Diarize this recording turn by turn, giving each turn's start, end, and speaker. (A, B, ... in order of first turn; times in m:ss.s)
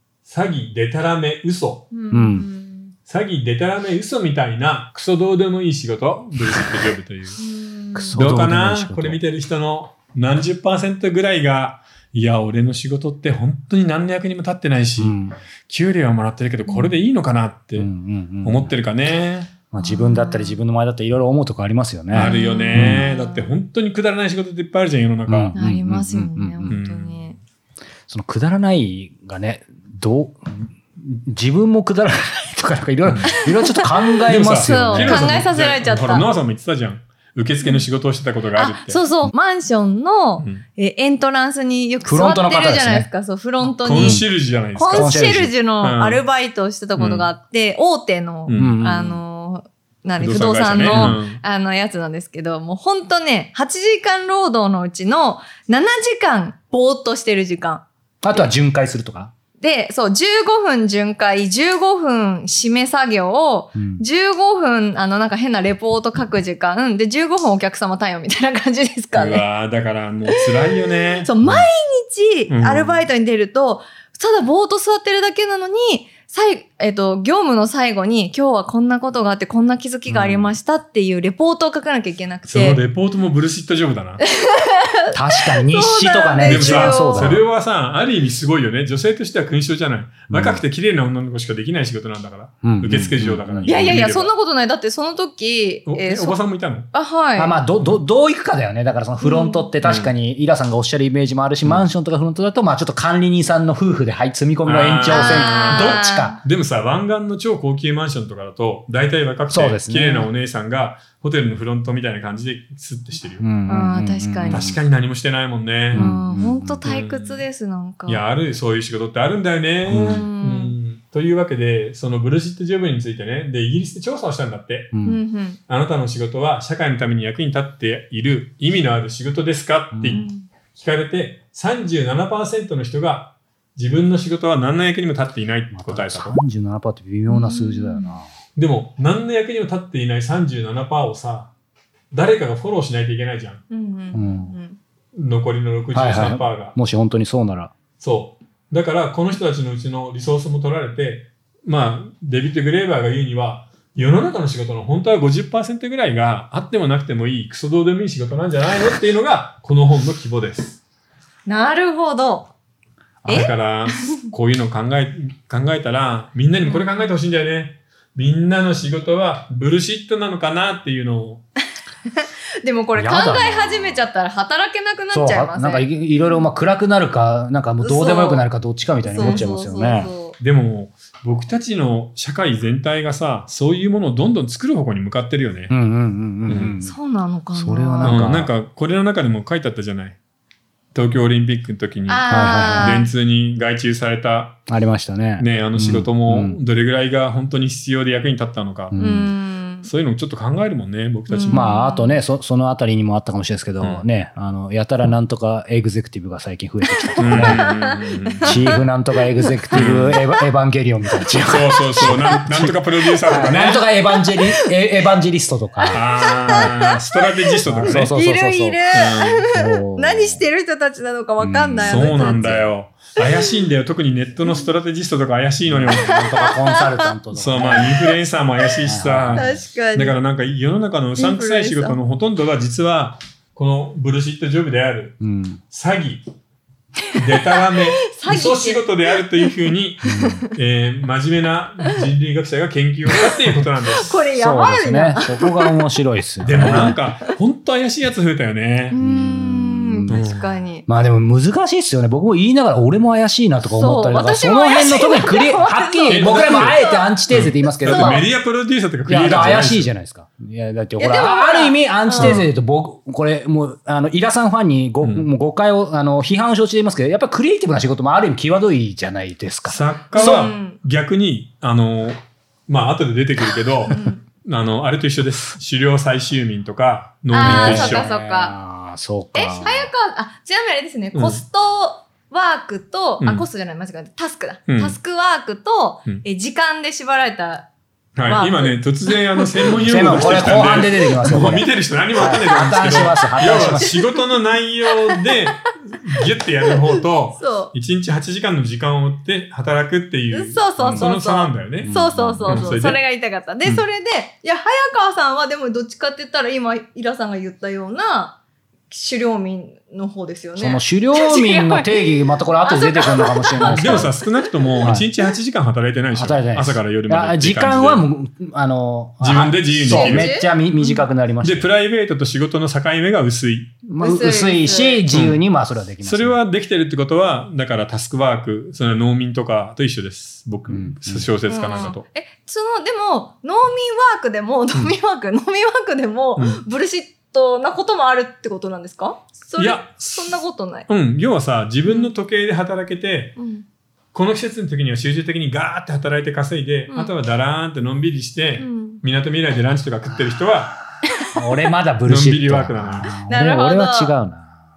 0:00.3-0:01.9 A
0:01.9-0:02.9 B
0:02.1-0:02.5 C
0:03.1-0:07.4 A
0:07.4-0:08.2 B
0:08.0-0:09.2 C
0:08.2-0:15.2 A
0:15.0-0:15.4 C
0:15.7-0:17.9 A
0:16.7-0:16.9 B
0:17.8-0:18.8 C
0:18.4-0:19.5 A
0:19.7-0:23.1 C
0:19.8-0:20.6 B
0:22.1-0:25.6 A
0:22.2-0:23.6 B
0:25.3-0:26.8 C
0:25.5-0:27.4 B
0:26.7-0:27.3 A
0:28.1-0:35.3 C
0:33.0-0:33.3 A
0:33.3-0:36.3 B
0:34.3-0:39.0 A
0:38.6-0:57.8 B
0:42.0-0:43.1 C
0:43.7-0:46.2 A
0:43.9-0:44.2 C
0:44.9-0:45.5 C
0:47.0-0:47.3 A
0:48.5-0:48.8 A
0:48.5-0:49.2 C
0:50.2-0:51.4 A
0:50.8-0:51.2 C
0:58.2-0:59.3 C
0:59.6-1:09.5 B
1:03.8-1:04.0 C
1:09.1-1:11.4 A
1:10.3-1:10.7 B
1:11.2-1:22.8 B
1:12.5-1:13.0 A
1:20.1-1:20.6 C
1:22.5-1:24.2 A
1:24.2-1:27.4 B
1:25.1-1:27.4 C
1:26.4-1:34.3 A
1:30.3-1:30.6 C
1:32.6-1:34.0 C
1:33.6-1:36.4 B
1:35.9-1:36.9 A
1:36.9-1:37.6 B
1:37.4-1:46.4 C
1:39.2-1:39.7 B
1:39.8-1:40.1 A
1:44.6-1:53.4 A
1:45.1-1:46.4 B
1:49.5-1:50.3 C
1:53.4-1:54.8 C
1:53.7-1:54.6 B
1:54.5-1:56.0 A
1:55.9-1:56.8 C
1:55.9-1:58.2 B
1:56.8-1:57.4 A
1:58.1-2:04.9 A
1:59.9-2:00.3 C
1:59.9-2:00.7 B
2:04.9-2:05.2 C
2:05.0-2:05.6 B
2:05.7-2:16.4 A
2:09.9-2:10.3 C
2:10.1-2:10.5 B
2:15.7-2:18.3 C
2:17.3-2:18.2 B
2:18.6-2:21.5 A
2:22.1-2:23.6 A
2:23.7-2:24.8 B
2:24.1-2:24.5 C
2:25.2-2:26.8 A
2:25.9-2:27.7 C
2:28.0-2:40.8 A
2:41.5-2:42.5 B
2:43.2-2:43.5 C
2:43.3-2:44.2 B
2:43.3-2:51.4 A
2:46.6-2:47.1 B
2:52.1-2:56.5 B
2:53.0-2:54.0 C
2:55.1-3:00.1 C
2:57.8-2:58.4 B
2:59.0-3:00.4 B
2:59.2-2:59.5 A
3:00.4-3:05.7 A
3:05.7-3:07.0 C
3:06.5-3:06.8 A
3:06.8-3:08.2 B
3:07.5-3:08.5 C
3:08.0-3:10.2 A
3:10.9-3:14.6 A
3:12.1-3:13.1 B
3:12.3-3:13.0 C
3:14.7-3:16.6 C
3:15.4-3:19.0 A
3:18.9-3:19.3 C
3:19.0-3:19.9 B
3:19.8-3:21.7 A
3:21.3-3:22.2 B
3:21.5-3:27.7 C
3:27.0-3:28.8 B
3:27.2-3:28.8 A
3:28.4-3:36.7 C
3:29.4-3:30.4 B
3:29.7-3:30.2 A
3:31.1-3:32.4 B
3:31.4-3:33.8 A
3:33.1-3:34.7 B
3:35.9-3:36.9 B
3:35.9-3:38.1 A
3:37.6-3:38.8 C
3:37.8-3:42.7 B
3:38.9-3:39.5 A
3:39.5-3:40.4 C
3:41.4-3:42.7 C
3:41.8-3:46.2 A
3:43.2-3:43.6 B
3:45.7-3:48.0 C
3:45.9-3:48.2 B
3:47.3-3:56.3 A
3:48.8-3:49.6 C
3:49.3-3:50.2 B
3:51.2-3:52.0 B
3:55.2-3:55.6 C
3:57.1-3:59.5 B
3:57.1-4:04.3 A
4:00.0-4:00.4 C
4:00.0-4:00.5 B
4:03.8-4:05.9 B
4:04.4-4:07.0 C
4:06.4-4:09.0 A
4:06.6-4:07.0 B
4:08.9-4:10.9 B
4:09.0-4:10.3 C
4:10.1-4:10.5 A
4:10.9-4:18.2 C
4:13.7-4:17.1 B
4:16.1-4:19.9 A
4:17.8-4:18.2 B
4:19.1-4:30.5 C
4:21.0-4:22.5 B
4:22.2-4:22.5 A
4:25.0-4:25.3 A
4:29.7-4:38.1 A
4:30.2-4:30.8 B
4:33.9-4:34.2 B
4:37.3-4:38.6 B
4:37.4-4:39.9 C
4:39.4-4:47.7 B
4:39.4-4:39.8 A
4:41.1-4:41.4 A
4:43.2-4:43.5 A
4:44.7-4:45.0 A
4:48.2-5:03.0 A
4:48.3-4:50.1 B
4:49.8-4:53.9 C
4:53.2-4:54.4 B
4:57.4-4:57.7 B
5:00.3-5:08.4 B
5:01.8-5:02.7 C
5:08.9-5:14.3 B
5:10.6-5:14.1 C
5:13.6-5:18.1 A
5:14.8-5:15.1 C
5:16.1-5:21.7 C
5:19.2-5:23.8 A
5:19.8-5:20.9 B
5:23.9-5:26.4 C
5:24.0-5:25.1 B
5:25.1-5:25.4 A
5:26.0-5:32.0 A
5:30.7-5:31.3 C
5:31.5-5:40.9 B
5:36.4-5:36.6 A
5:39.6-5:43.4 A
5:41.9-5:42.1 B
5:43.4-5:43.6 B
5:44.1-5:50.7 A
5:48.6-5:49.0 B
5:50.1-5:50.8 C
5:51.3-5:54.5 C
5:52.0-5:53.1 A
5:53.3-5:54.2 B